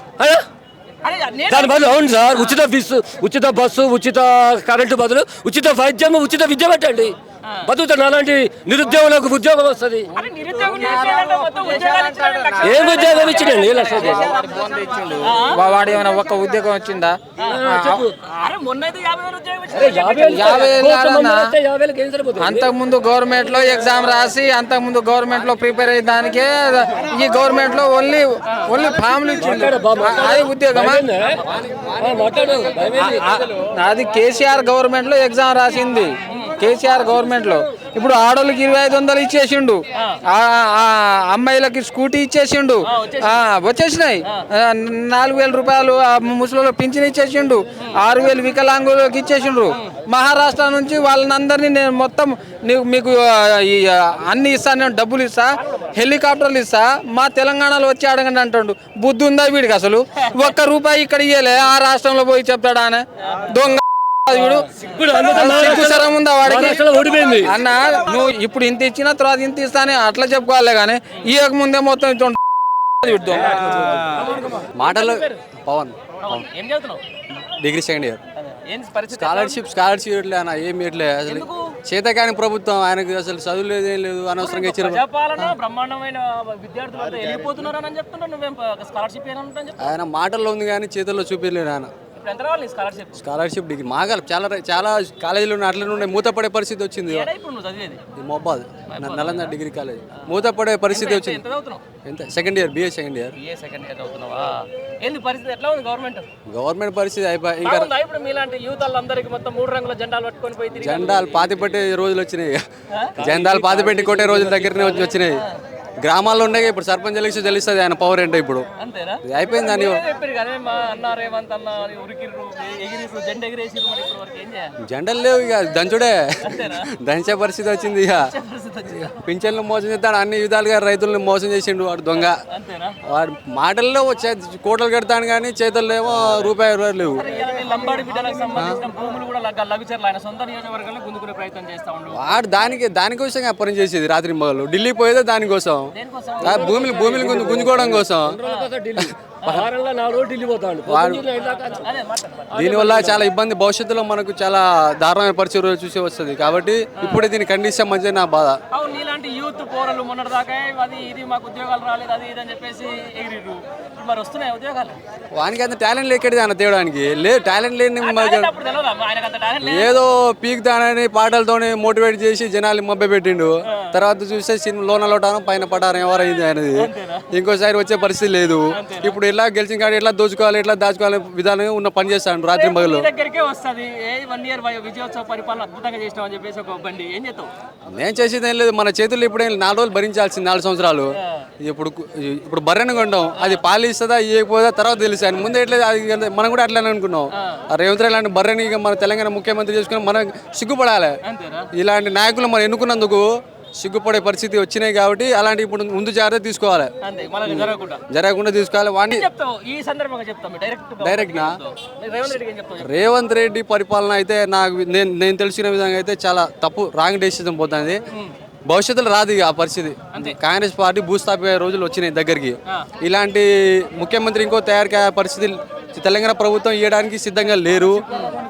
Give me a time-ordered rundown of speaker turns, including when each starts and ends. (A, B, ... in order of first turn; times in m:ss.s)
0:01.0-0:02.5 A
0:01.5-0:10.1 B
0:10.1-0:14.3 A
0:10.8-0:13.0 C
0:12.6-0:14.4 B
0:14.0-0:18.0 C
0:15.2-0:15.6 A
0:17.5-0:18.1 B
0:18.2-0:20.8 A
0:19.7-0:22.7 B
0:20.3-0:21.5 C
0:22.4-0:31.0 C
0:29.4-0:33.2 B
0:33.0-1:04.6 C
0:36.2-0:36.5 A
0:42.8-0:43.4 A
1:04.3-1:07.5 B
1:05.3-1:12.4 C
1:12.9-1:14.1 C
1:14.2-1:15.1 A
1:14.7-1:16.4 D
1:16.2-1:17.0 A
1:17.6-1:18.2 D
1:18.4-1:19.6 A
1:19.1-1:25.5 D
1:21.2-1:21.8 A
1:24.4-1:29.9 A
1:29.8-1:31.9 D
1:32.2-1:33.2 A
1:33.2-1:37.3 D
1:37.1-1:38.0 A
1:38.2-1:41.4 D
1:38.9-1:39.6 A
1:40.9-1:41.8 A
1:42.0-1:43.4 D
1:43.4-1:46.3 A
1:46.5-1:47.9 D
1:47.6-1:51.8 A
1:50.7-1:52.6 D
1:53.2-1:55.4 D
1:53.2-1:55.0 B
1:54.7-1:55.6 A
1:56.0-1:58.6 D
1:58.8-2:04.8 A
1:59.2-2:00.0 D
2:04.8-2:08.3 D
2:06.4-2:06.9 A
2:08.2-2:09.2 A
2:09.2-2:12.4 D
2:12.5-2:13.0 A
2:13.0-2:17.2 D
2:17.1-2:22.3 A
2:18.5-2:18.8 D
2:22.1-2:28.4 D
2:25.9-2:27.4 A
2:26.4-2:31.8 B
2:29.0-2:29.6 D
2:30.9-2:31.2 D
2:31.6-2:32.6 A
2:32.5-2:33.2 B
2:32.5-2:38.6 D
2:37.0-2:37.3 A
2:38.7-2:45.0 A
2:45.3-2:48.5 D
2:48.0-2:50.0 A
2:49.6-3:03.1 D
2:53.6-2:54.0 A
2:56.8-2:57.3 A
2:58.7-2:59.2 A
3:02.5-3:07.5 A
3:07.9-3:21.2 D
3:13.3-3:13.6 A
3:21.2-3:21.7 A
3:21.7-3:26.9 D
3:27.0-3:28.0 A
3:27.4-3:29.3 D
3:29.1-3:33.0 A
3:31.0-3:31.5 D
3:32.8-3:38.0 D
3:38.7-3:48.0 D
3:40.1-3:40.4 A